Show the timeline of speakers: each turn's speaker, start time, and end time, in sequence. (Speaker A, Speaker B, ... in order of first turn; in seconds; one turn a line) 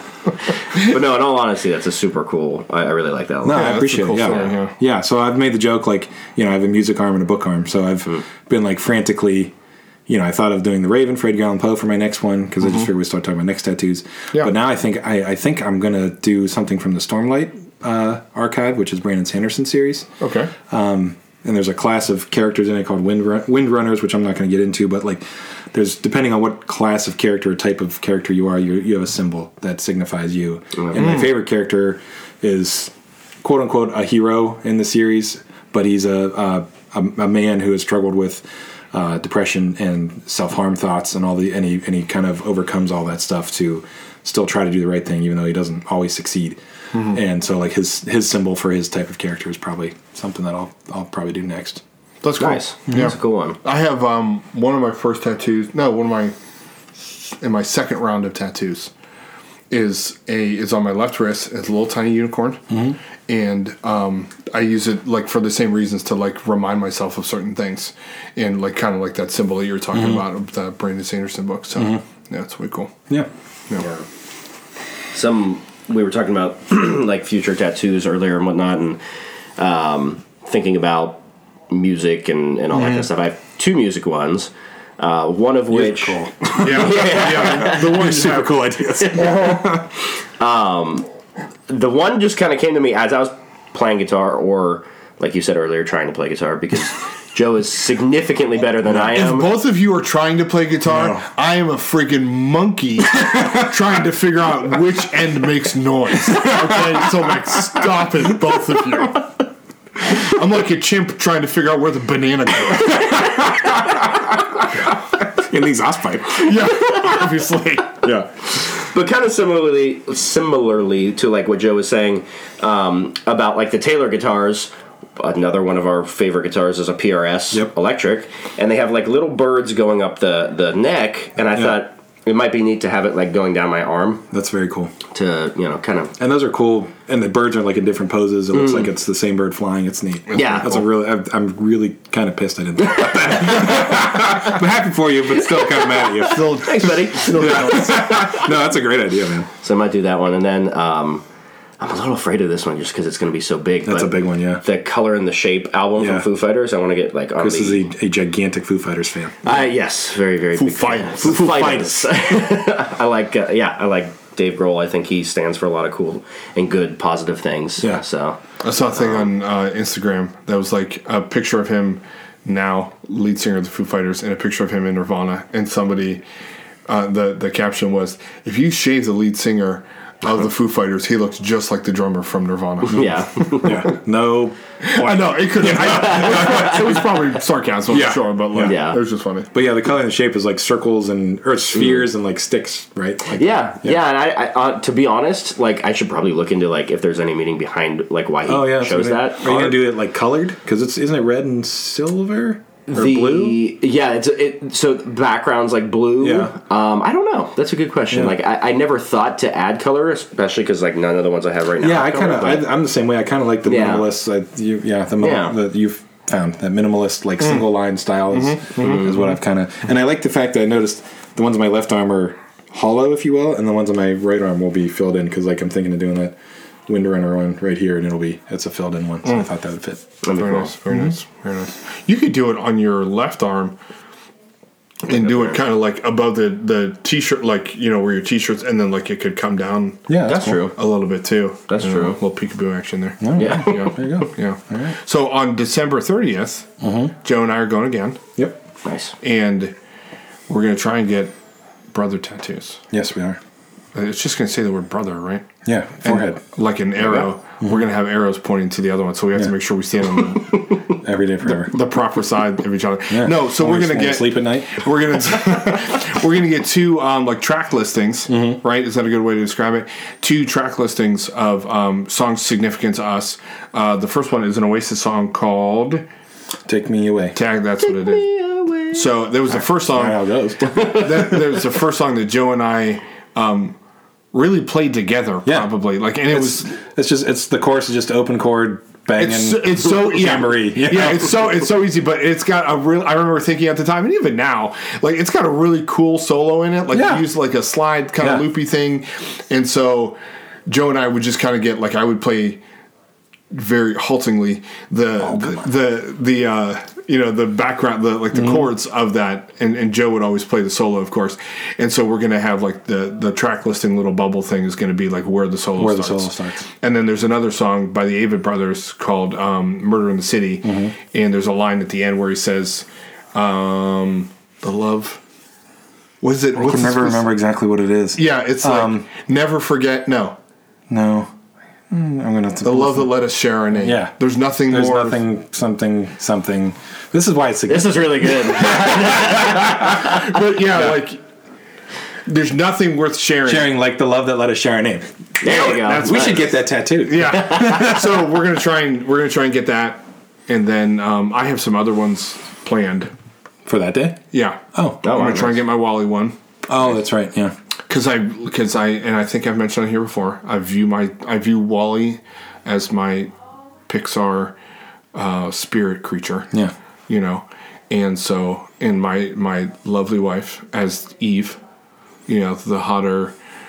Speaker A: 0.7-4.5
Speaker B: 3.4-9.5
Speaker C: 3.5-4.7
Speaker B: 10.1-20.1
Speaker C: 20.2-20.5
Speaker B: 20.7-46.6
Speaker C: 30.9-31.3
Speaker C: 46.9-47.2
Speaker B: 47.1-51.8
Speaker C: 52.2-56.3
Speaker A: 52.4-53.6
Speaker C: 57.2-58.9
Speaker C: 59.7-62.8
Speaker B: 62.7-63.0
Speaker C: 63.3-72.9
Speaker B: 69.9-70.2
Speaker A: 75.1-79.0
Speaker A: 79.6-88.1
Speaker B: 82.8-83.0
Speaker B: 85.7-89.9
Speaker C: 86.5-88.7
Speaker A: 89.0-89.8
Speaker A: 90.4-91.0
Speaker A: 91.7-99.5
Speaker C: 98.9-109.3
Speaker B: 100.9-101.2
Speaker B: 106.3-106.8
Speaker C: 110.1-113.2
Speaker B: 113.1-116.7
Speaker C: 116.4-118.1
Speaker A: 118.6-134.2
Speaker B: 134.3-134.9
Speaker A: 135.1-136.1
Speaker B: 136.2-149.5
Speaker A: 138.5-138.9
Speaker C: 140.3-140.8
Speaker A: 140.3-140.7
Speaker A: 143.0-143.8
Speaker A: 145.4-148.4
Speaker C: 146.2-148.3
Speaker A: 149.6-151.2
Speaker A: 151.8-157.8
Speaker B: 153.8-154.6
Speaker B: 156.0-156.2
Speaker B: 157.4-159.3
Speaker A: 159.4-168.4
Speaker C: 160.6-161.9
Speaker C: 168.6-176.2
Speaker A: 168.9-169.2
Speaker C: 176.9-183.9
Speaker A: 182.8-183.8
Speaker B: 183.6-187.0
Speaker C: 184.8-189.5
Speaker A: 185.8-186.8
Speaker B: 187.9-188.8
Speaker A: 188.6-189.0
Speaker B: 189.5-194.0
Speaker A: 191.8-192.0
Speaker A: 193.3-199.9
Speaker B: 198.5-203.6
Speaker A: 202.9-212.7
Speaker B: 206.2-206.5
Speaker B: 211.8-230.0
Speaker A: 213.7-214.1
Speaker A: 215.2-215.6
Speaker C: 218.3-219.2
Speaker A: 230.2-230.7
Speaker C: 230.3-233.7
Speaker C: 235.0-240.2
Speaker A: 235.1-235.6
Speaker B: 240.1-240.7
Speaker A: 240.2-240.8
Speaker C: 240.7-248.2
Speaker A: 241.7-242.2
Speaker B: 243.2-244.9
Speaker A: 243.3-244.2
Speaker B: 246.8-247.1
Speaker A: 248.8-249.2
Speaker C: 249.2-249.7
Speaker C: 250.5-251.3
Speaker C: 251.9-252.8
Speaker B: 252.9-253.4
Speaker C: 253.9-255.5
Speaker B: 255.7-256.4
Speaker C: 256.0-260.8
Speaker B: 260.9-261.8
Speaker C: 261.4-276.0
Speaker B: 263.1-265.1
Speaker B: 268.3-268.6
Speaker B: 276.7-277.4
Speaker C: 277.3-278.3
Speaker A: 277.8-279.0
Speaker C: 278.9-283.8
Speaker B: 279.9-280.9
Speaker A: 280.6-281.3
Speaker C: 284.3-286.7
Speaker B: 285.4-285.7
Speaker B: 286.3-291.4
Speaker C: 289.2-302.6
Speaker B: 296.9-297.2
Speaker B: 298.2-298.4
Speaker C: 303.5-316.3
Speaker B: 315.8-316.6
Speaker C: 316.8-325.2
Speaker B: 320.6-320.9
Speaker C: 326.2-327.3
Speaker B: 326.6-329.0
Speaker C: 328.1-330.4
Speaker B: 330.9-331.3
Speaker B: 331.9-333.1
Speaker C: 332.6-335.2
Speaker B: 333.8-334.1
Speaker B: 334.7-339.9
Speaker A: 337.7-340.4
Speaker C: 339.5-341.2
Speaker C: 342.2-343.7
Speaker B: 343.4-348.1
Speaker A: 345.4-346.5
Speaker C: 345.4-353.1
Speaker B: 353.6-354.2
Speaker C: 354.3-356.4
Speaker B: 354.7-355.0
Speaker A: 355.0-355.6
Speaker B: 356.7-357.5
Speaker C: 357.9-363.3
Speaker C: 363.9-364.5
Speaker C: 365.1-366.5
Speaker C: 367.1-371.6
Speaker C: 372.3-373.3